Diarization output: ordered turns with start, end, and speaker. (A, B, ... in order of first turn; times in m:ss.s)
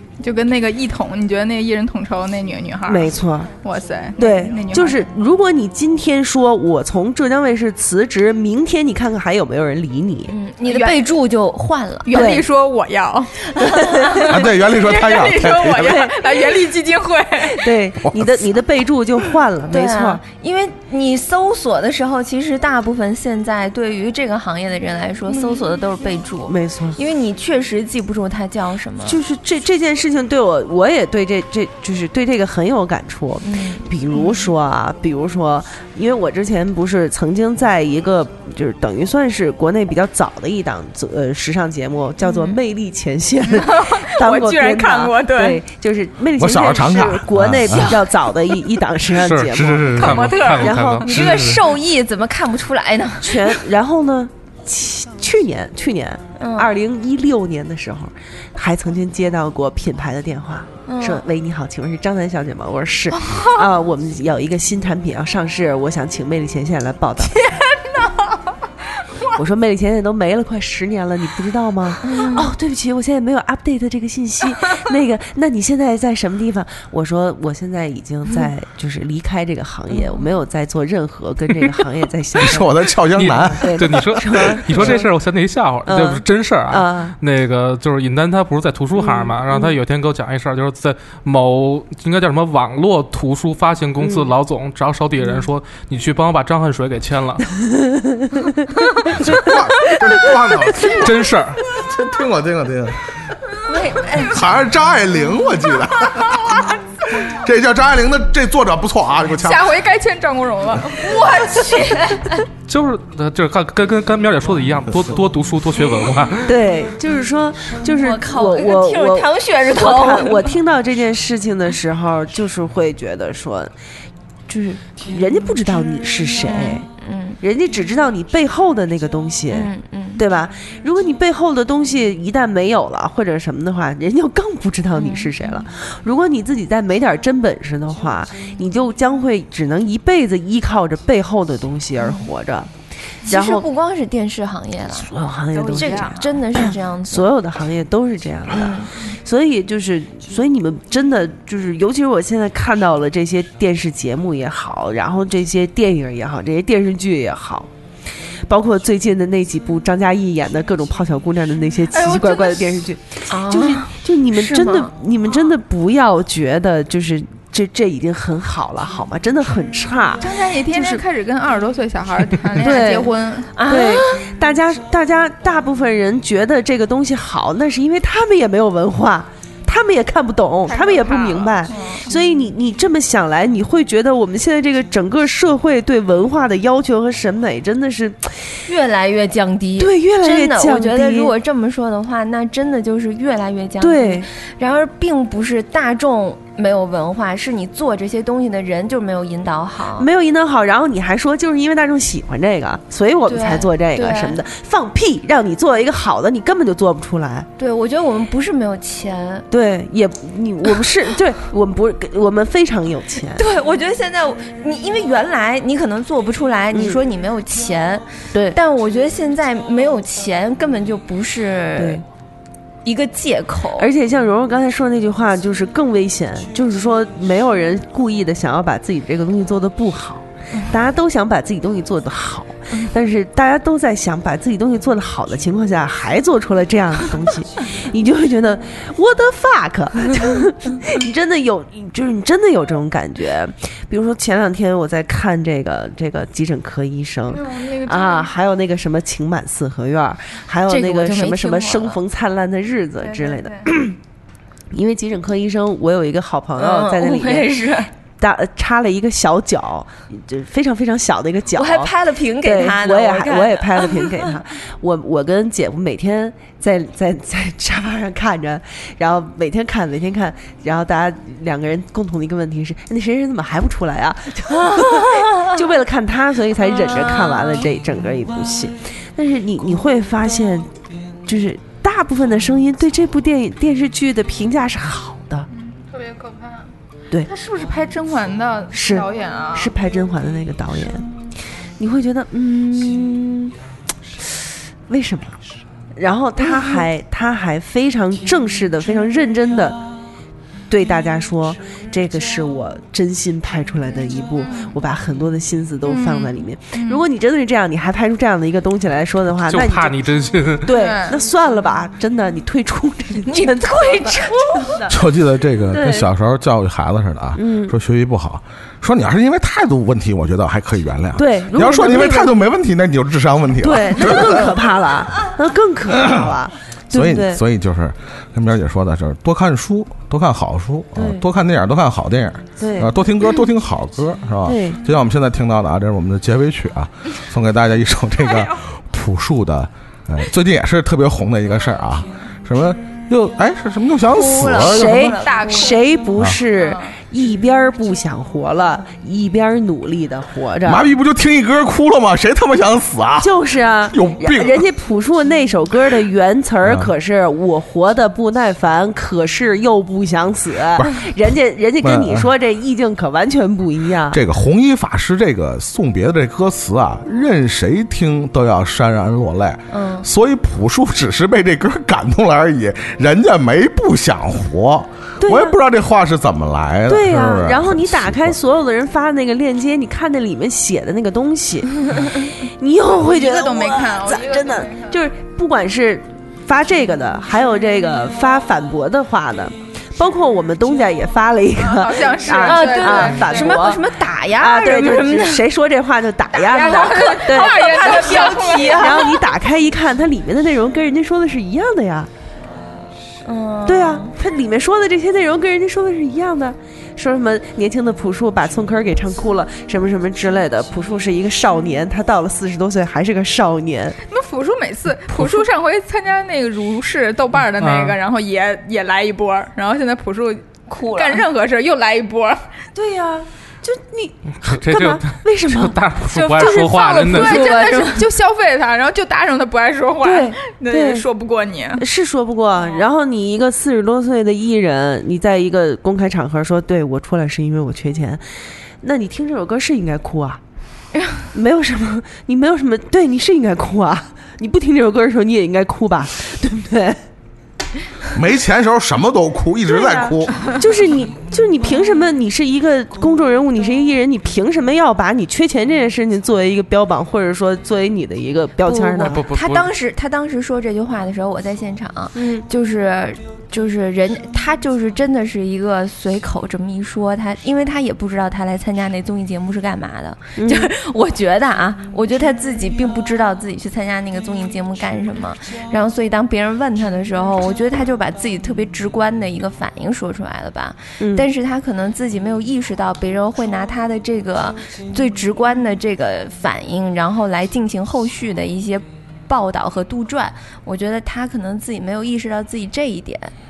0:00.2-0:05.0 A
0:02.9-0:03.5 B
0:04.2-0:10.3 B
0:10.3-0:12.3 C
0:10.7-0:11.1 A
0:12.1-0:13.5 A
0:12.1-0:12.4 B
0:13.6-0:13.8 C
0:13.7-0:14.2 B
0:14.1-0:17.7 A
0:14.3-0:16.1 D
0:15.8-0:16.2 B
0:17.4-0:20.2 B
0:18.0-0:18.4 D
0:19.7-0:29.2 C
0:26.5-0:27.0 B
0:29.0-0:51.2 B
0:33.4-0:33.8 C
0:42.3-0:42.5 C
0:43.6-0:45.6 A
0:46.4-0:48.0 D
0:49.1-0:51.6 E
0:50.0-0:51.1 A
0:51.0-0:53.6 C
0:53.2-1:07.5 B
0:56.4-0:56.7 C
1:00.9-1:01.3 C
1:07.4-1:08.1 A
1:09.4-1:22.8 B
1:12.0-1:12.5 C
1:19.9-1:20.3 C
1:22.4-1:24.0 D
1:23.1-1:37.5 E
1:23.5-1:25.1 B
1:25.8-1:27.2 B
1:29.0-1:29.8 B
1:34.0-1:34.3 B
1:38.0-1:39.5 B
1:39.2-1:43.0 D
1:40.9-1:41.6 E
1:43.6-1:44.4 C
1:44.3-1:46.6 D
1:47.3-1:49.7 D
1:49.4-1:51.2 A
1:51.0-1:52.4 C
1:52.7-1:56.5 E
1:56.5-2:03.7 B
1:57.9-2:00.6 C
2:04.5-2:06.9 B
2:06.4-2:07.4 C
2:07.4-2:22.7 B
2:09.5-2:10.2 C
2:15.0-2:15.3 C
2:23.3-2:23.6 B
2:23.3-2:27.3 C
2:25.0-2:37.7 B
2:25.6-2:26.1 A
2:28.5-2:28.9 C
2:38.5-2:51.0 B
2:41.9-2:42.8 A
2:43.3-2:44.9 C
2:50.2-2:53.5 A
2:52.6-2:53.1 B
2:52.6-2:52.9 C
2:53.6-2:54.3 C
2:53.7-3:08.4 B
3:00.7-3:01.9 A
3:01.7-3:02.1 C
3:08.7-3:20.1 C
3:09.8-3:11.3 B
3:13.8-3:14.3 B
3:20.0-3:27.5 B
3:23.3-3:24.4 C
3:27.6-3:29.5 C
3:29.5-3:33.4 B
3:33.4-3:42.0 C
3:36.7-3:37.0 B
3:41.8-3:42.0 B
3:42.8-3:43.9 C
3:43.8-4:14.0 B
4:07.3-4:08.3 A
4:10.7-4:12.0 C
4:13.1-4:13.6 A
4:14.7-4:17.6 B
4:16.6-4:17.9 C
4:18.2-4:40.7 B
4:21.5-4:24.4 C
4:34.7-4:35.5 C
4:36.8-4:37.5 C
4:41.3-4:45.5 B
4:45.6-4:46.7 A
4:47.3-4:49.7 A
4:48.7-4:51.1 B
4:51.8-4:53.6 B
4:54.9-4:55.4 B
4:56.0-4:59.8 B
5:00.7-5:10.0 B
5:05.9-5:07.0 A
5:09.5-5:10.7 E
5:10.6-5:15.0 B
5:10.7-5:11.1 A
5:13.3-5:14.9 C
5:14.9-5:24.6 D
5:15.7-5:16.1 B
5:17.4-5:17.8 B
5:21.2-5:22.3 B
5:23.6-5:27.4 B
5:26.9-5:45.2 D
5:31.0-5:31.2 B
5:32.6-5:32.9 B
5:34.5-5:34.8 B
5:44.1-5:45.8 C
5:44.6-5:50.8 B
5:45.2-5:45.9 A
5:50.6-5:53.3 D
5:53.2-6:04.2 B
5:53.9-5:54.7 D
5:56.6-5:56.9 D
6:00.8-6:01.1 D
6:01.8-6:02.3 D
6:04.1-6:18.4 D
6:09.7-6:10.1 C
6:15.2-6:15.6 B
6:16.9-6:42.1 B
6:22.9-6:25.0 A
6:31.6-6:33.6 A
6:32.4-6:35.4 C
6:36.4-6:39.2 A
6:36.5-6:39.2 C
6:43.2-6:44.1 C
6:43.7-6:54.0 B
6:54.1-7:02.4 A
6:55.1-6:55.5 B
6:57.6-6:58.0 E
7:00.7-7:01.3 C
7:02.8-7:07.9 B
7:04.4-7:07.5 E
7:06.2-7:08.1 C
7:06.4-7:11.8 A
7:10.0-7:11.1 B
7:11.8-7:18.2 B
7:18.8-7:20.4 B
7:21.3-7:27.0 B
7:28.1-7:30.3 D
7:29.8-7:39.2 B
7:38.7-8:13.3 C
7:39.0-7:39.7 E
7:42.2-7:42.4 B
7:50.4-7:50.7 B
8:01.0-8:01.3 B